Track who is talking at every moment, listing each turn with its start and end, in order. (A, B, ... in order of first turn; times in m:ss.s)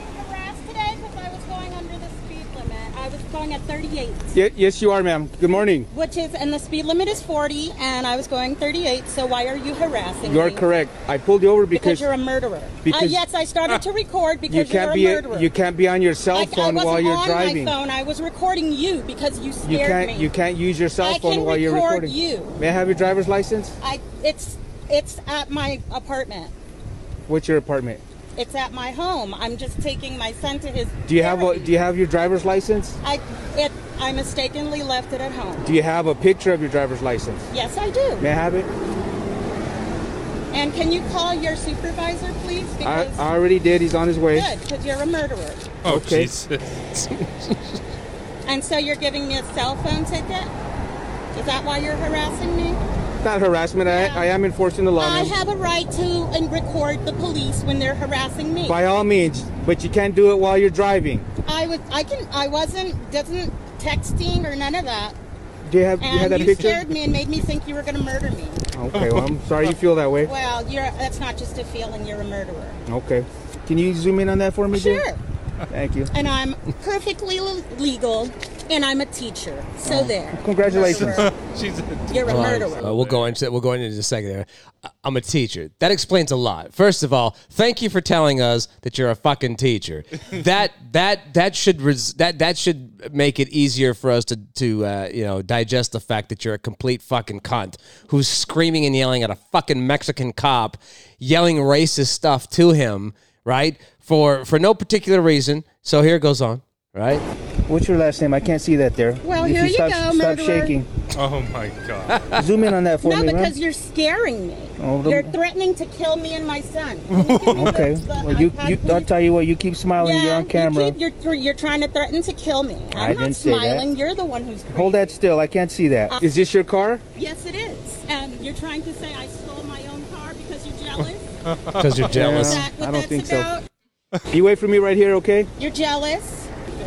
0:00.1-0:04.3 A
0:04.3-0:05.9 B
0:05.6-0:10.6 A
0:10.2-0:12.1 B
0:11.7-0:15.5 A
0:12.8-0:13.2 B
0:14.5-0:17.7 B
0:16.3-0:20.3 A
0:19.6-0:23.8 B
0:21.0-0:22.6 A
0:23.8-0:26.5 A
0:27.3-0:28.0 B
0:28.4-0:31.7 A
0:31.0-0:33.0 B
0:33.0-0:35.6 A
0:35.6-0:37.4 B
0:37.5-0:38.2 A
0:38.2-0:38.7 B
0:40.5-0:43.2 A
0:42.8-0:44.5 B
0:44.3-0:45.8 A
0:45.8-0:46.3 B
0:45.8-0:46.9 C
0:46.9-0:47.8 D
0:48.4-0:50.5 A
0:51.3-0:52.8 A
0:53.2-0:55.4 B
0:53.8-0:54.3 A
0:55.0-0:58.8 A
0:58.6-1:01.3 B
1:01.4-1:05.2 A
1:05.6-1:06.8 B
1:06.0-1:08.6 A
1:08.7-1:10.3 B
1:08.9-1:09.7 C
1:10.2-1:12.8 A
1:12.9-1:15.0 B
1:14.7-1:15.2 A
1:15.7-1:16.1 B
1:16.1-1:21.3 A
1:19.8-1:21.3 B
1:20.8-1:23.3 C
1:22.1-1:22.9 A
1:22.3-1:47.2 D
1:47.7-1:50.9 B
1:49.2-1:50.8 A
1:51.1-1:52.3 C
1:52.1-1:52.4 D
1:52.3-1:53.6 B
1:53.0-1:59.1 A
1:54.8-1:55.3 B
1:57.1-1:57.8 C
1:57.5-2:01.0 B
2:00.0-2:05.2 A
2:02.9-2:03.9 B
2:04.7-2:07.0 B
2:07.1-2:11.3 A
2:11.0-2:12.2 C
2:11.8-2:12.7 D
2:12.1-2:13.5 B
2:12.3-2:13.6 A
2:14.3-2:15.5 B
2:15.6-2:16.5 A